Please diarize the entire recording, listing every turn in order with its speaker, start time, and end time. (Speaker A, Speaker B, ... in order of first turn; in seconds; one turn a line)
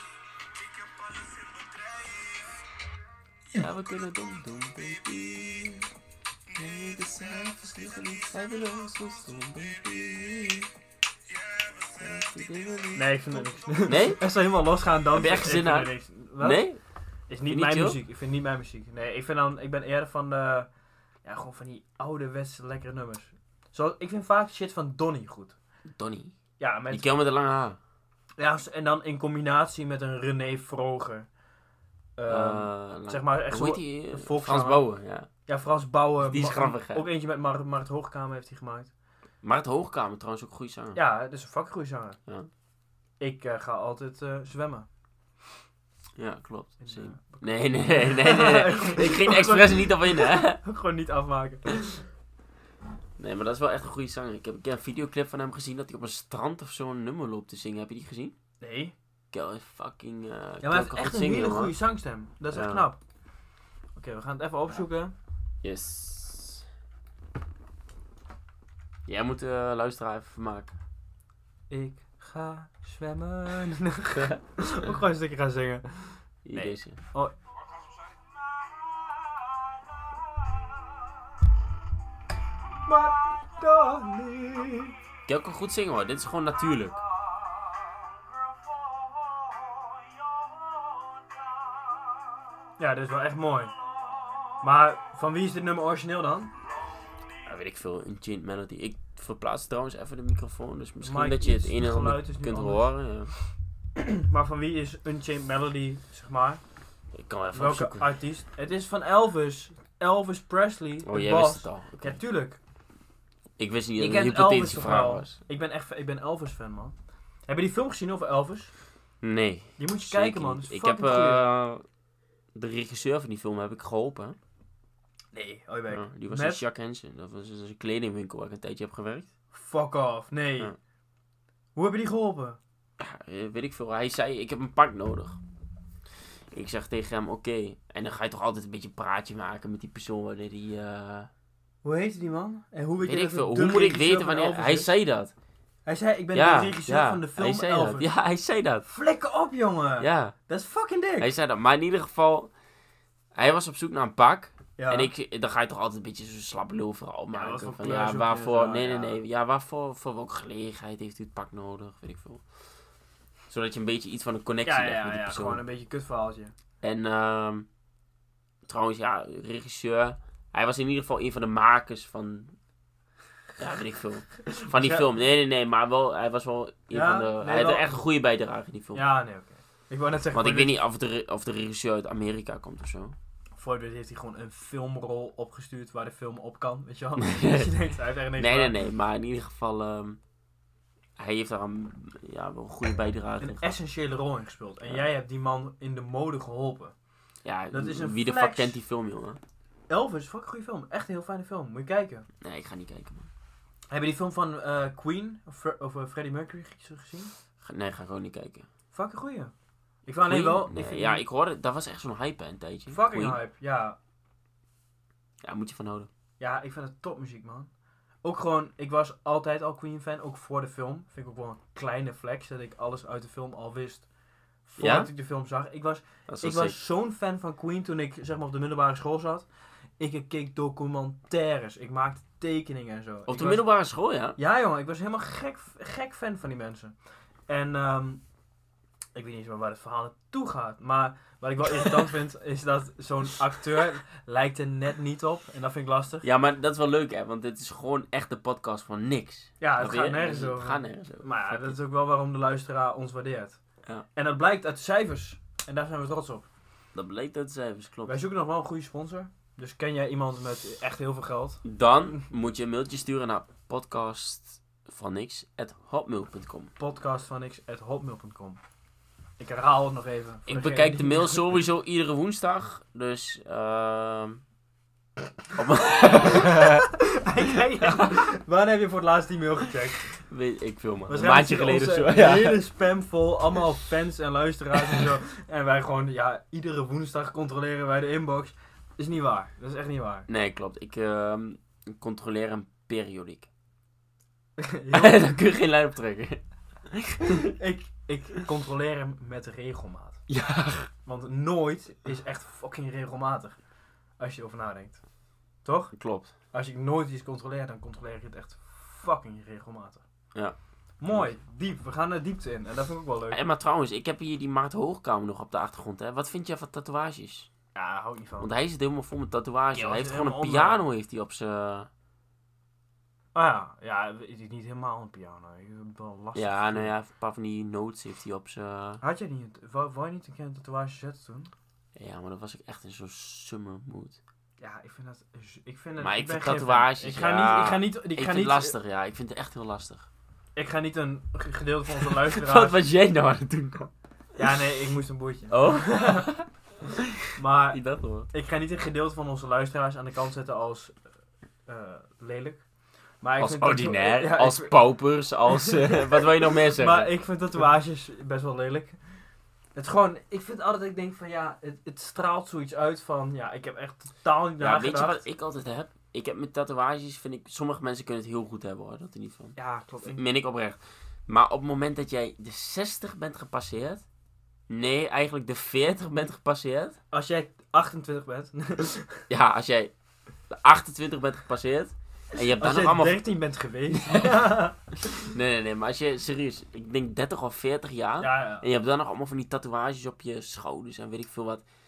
Speaker A: 3.5-5.9
Speaker A: 6.5-10.7
Speaker A: 11.9-14.2
Speaker B: 12.9-16.6
Speaker A: 15.1-16.8
Speaker B: 17.3-20.7
Speaker A: 17.5-18.0
Speaker B: 21.2-25.6
Speaker A: 25.9-26.4
Speaker B: 26.6-27.1
Speaker A: 26.9-27.8
Speaker B: 28.4-31.3
Speaker B: 32.1-34.9
Speaker A: 32.3-35.3
Speaker B: 35.5-38.9
Speaker A: 36.2-37.0
Speaker A: 39.4-41.0
Speaker B: 41.0-42.2
Speaker B: 43.2-44.9
Speaker A: 46.1-50.6
Speaker B: 46.8-52.1
Speaker A: 53.2-58.4
Speaker B: 58.6-58.9
Speaker A: 59.3-61.8
Speaker B: 60.6-63.0
Speaker A: 62.5-62.9
Speaker B: 64.0-65.1
Speaker A: 65.6-66.7
Speaker A: 69.1-70.8
Speaker B: 71.7-77.3
Speaker A: 76.5-77.0
Speaker B: 82.9-84.9
Speaker A: 85.3-87.0
Speaker B: 92.8-93.7
Speaker B: 94.6-96.5
Speaker A: 97.5-103.3
Speaker B: 101.0-102.9
Speaker B: 104.0-106.6
Speaker A: 107.1-108.1
Speaker B: 107.5-112.6
Speaker A: 111.0-112.2
Speaker A: 113.6-115.4
Speaker B: 114.0-117.0
Speaker B: 117.5-118.7
Speaker A: 119.2-121.8
Speaker B: 119.8-121.4
Speaker A: 122.5-124.4
Speaker B: 125.3-126.6
Speaker A: 125.9-129.3
Speaker B: 129.5-130.7
Speaker B: 131.8-132.6
Speaker A: 133.0-135.4
Speaker A: 136.5-141.3
Speaker B: 141.8-144.9
Speaker A: 143.0-145.3
Speaker B: 145.9-148.1
Speaker A: 146.3-148.9
Speaker B: 148.9-151.3
Speaker A: 150.0-150.3
Speaker A: 151.2-152.5
Speaker A: 153.3-162.4
Speaker B: 154.8-155.1
Speaker B: 157.3-159.2
Speaker A: 163.5-165.6
Speaker B: 164.6-166.5
Speaker A: 166.8-167.7
Speaker A: 168.6-172.5
Speaker A: 173.6-179.0
Speaker B: 174.5-175.1
Speaker B: 176.9-178.0
Speaker B: 178.9-180.8
Speaker A: 180.3-183.2
Speaker B: 183.6-188.8
Speaker A: 187.2-187.7
Speaker A: 188.4-190.2
Speaker A: 191.2-193.8
Speaker B: 193.4-196.9
Speaker A: 197.4-199.4
Speaker B: 197.7-198.8
Speaker B: 199.9-202.3
Speaker A: 202.4-203.3
Speaker B: 203.9-207.3
Speaker A: 207.6-208.7
Speaker B: 208.9-209.5
Speaker B: 210.1-211.2
Speaker A: 210.2-213.4
Speaker B: 212.9-214.0
Speaker A: 215.4-216.1
Speaker B: 216.4-217.7
Speaker B: 218.2-224.1
Speaker B: 224.7-229.5
Speaker A: 224.8-225.1
Speaker A: 226.3-226.8
Speaker B: 230.0-233.6
Speaker A: 233.3-234.4
Speaker B: 234.4-237.0
Speaker B: 237.5-238.2
Speaker B: 239.1-246.2
Speaker A: 246.2-251.8
Speaker B: 249.6-253.6
Speaker B: 254.1-256.5
Speaker A: 256.9-258.2
Speaker B: 258.1-261.6
Speaker A: 261.6-266.7
Speaker B: 266.8-268.6
Speaker B: 269.4-271.4
Speaker A: 270.5-274.4
Speaker A: 275.5-276.9
Speaker B: 276.1-280.2
Speaker A: 277.8-278.1
Speaker A: 280.2-282.6
Speaker B: 281.1-290.3
Speaker A: 290.3-293.5
Speaker B: 294.6-295.4
Speaker A: 294.9-297.4
Speaker B: 297.3-300.2
Speaker A: 300.3-300.9
Speaker B: 301.0-303.6
Speaker B: 304.2-305.0
Speaker B: 305.6-305.9
Speaker A: 305.9-306.3
Speaker B: 306.5-310.0
Speaker B: 311.0-313.4
Speaker A: 313.3-317.5
Speaker B: 317.8-318.5
Speaker A: 318.4-321.9
Speaker B: 319.7-320.8
Speaker B: 323.3-326.9
Speaker A: 326.4-329.0
Speaker B: 329.0-331.5
Speaker A: 331.9-334.2
Speaker B: 334.6-338.8
Speaker A: 336.0-340.1
Speaker B: 340.6-342.8
Speaker A: 342.1-343.9
Speaker B: 344.4-346.3
Speaker A: 345.5-348.3
Speaker B: 347.4-350.9
Speaker B: 351.7-352.6
Speaker B: 353.2-354.8
Speaker A: 353.4-357.1
Speaker B: 355.5-359.0
Speaker B: 359.8-365.2
Speaker A: 364.6-374.0
Speaker B: 369.6-370.2
Speaker A: 374.7-377.0
Speaker B: 377.1-379.2
Speaker A: 379.3-379.9
Speaker A: 380.5-383.2
Speaker B: 382.5-385.3
Speaker A: 384.1-384.4
Speaker A: 385.3-391.6
Speaker B: 388.2-388.6